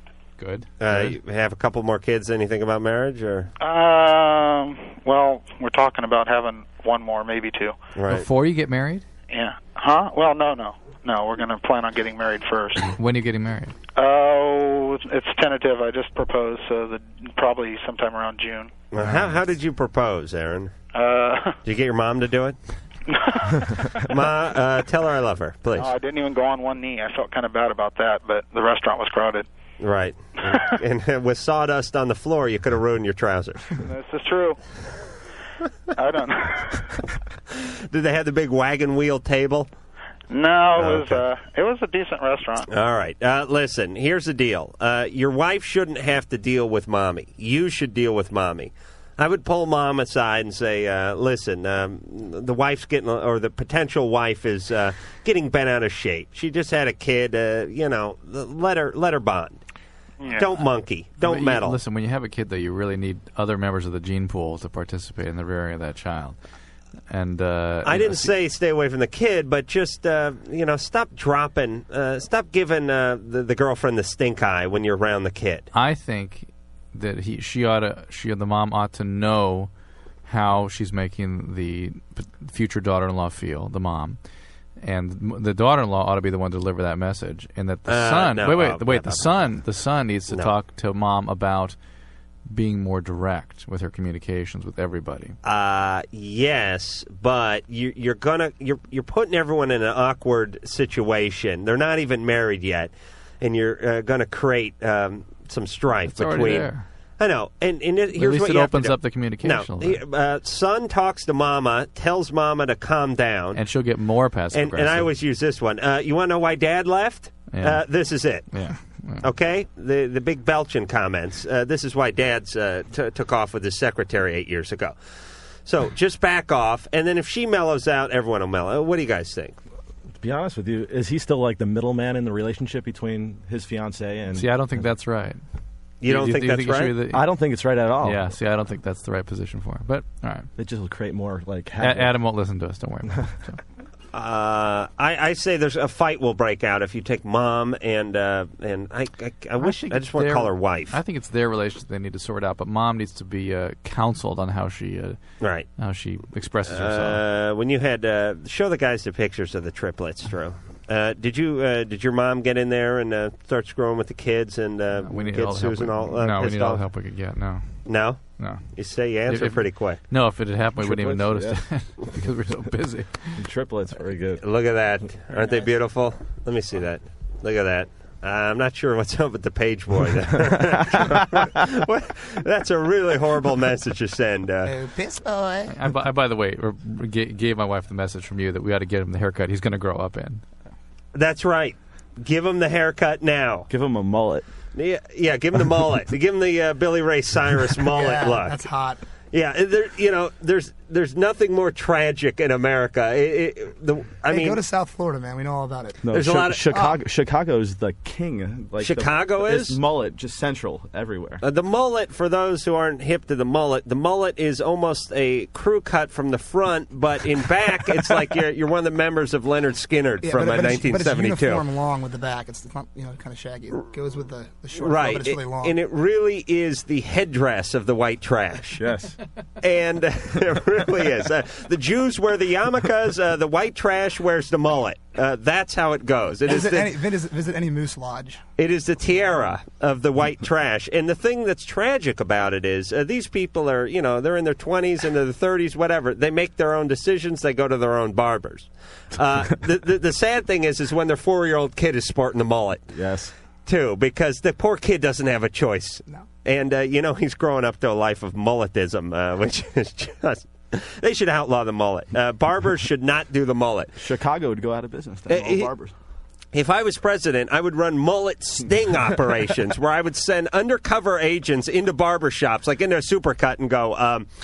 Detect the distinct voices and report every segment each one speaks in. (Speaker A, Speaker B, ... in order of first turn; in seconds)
Speaker A: 0.4-1.2, 8.1-9.1, 13.0-13.8, 19.0-19.4, 61.2-66.4, 67.1-68.3, 75.7-79.7, 80.3-84.2, 84.8-91.8, 92.5-95.4, 106.1-106.8, 108.1-110.0, 113.5-115.1, 117.5-117.8, 118.5-119.3, 134.3-135.4, 136.0-137.3, 138.0-140.5, 141.8-143.6, 149.6-155.2, 155.8-157.2, 165.0-173.4, 185.7-190.4
Speaker B: 0.8-3.5, 8.0-8.3, 18.9-20.7, 21.6-22.6, 24.0-25.9, 29.8-33.7, 37.5-39.7, 40.8-41.2, 42.7-59.6, 60.3-61.8, 67.8-75.7, 87.9-89.5, 95.4-113.6, 114.5-118.6, 119.2-125.0, 125.7-129.6, 136.0-136.9, 144.1-151.0, 155.4-155.7, 156.7-166.8, 167.8-170.0, 174.4-184.7, 191.1-193.7, 194.8-198.6, 199.3-204.6, 206.1-206.7, 208.8-209.8, 211.4-221.6, 224.8-228.8, 229.6-237.0, 238.6-252.9, 253.7-263.9, 265.3-265.7, 266.5-274.3
Speaker C: 3.6-7.8, 9.3-12.9, 13.9-18.7, 20.9-21.6, 23.1-24.1, 25.8-29.5, 33.8-34.6, 36.0-36.9, 40.3-42.7, 60.2-60.5
Speaker D: 130.2-134.9, 137.1-138.3, 140.6-142.2, 170.8-171.8, 173.4-174.4, 193.7-194.5, 206.0-211.4, 228.8-229.2, 252.9-253.3, 264.0-265.9
Speaker E: 184.6-185.8, 197.9-199.0, 204.3-206.0, 206.7-207.0, 220.2-225.8, 236.5-238.4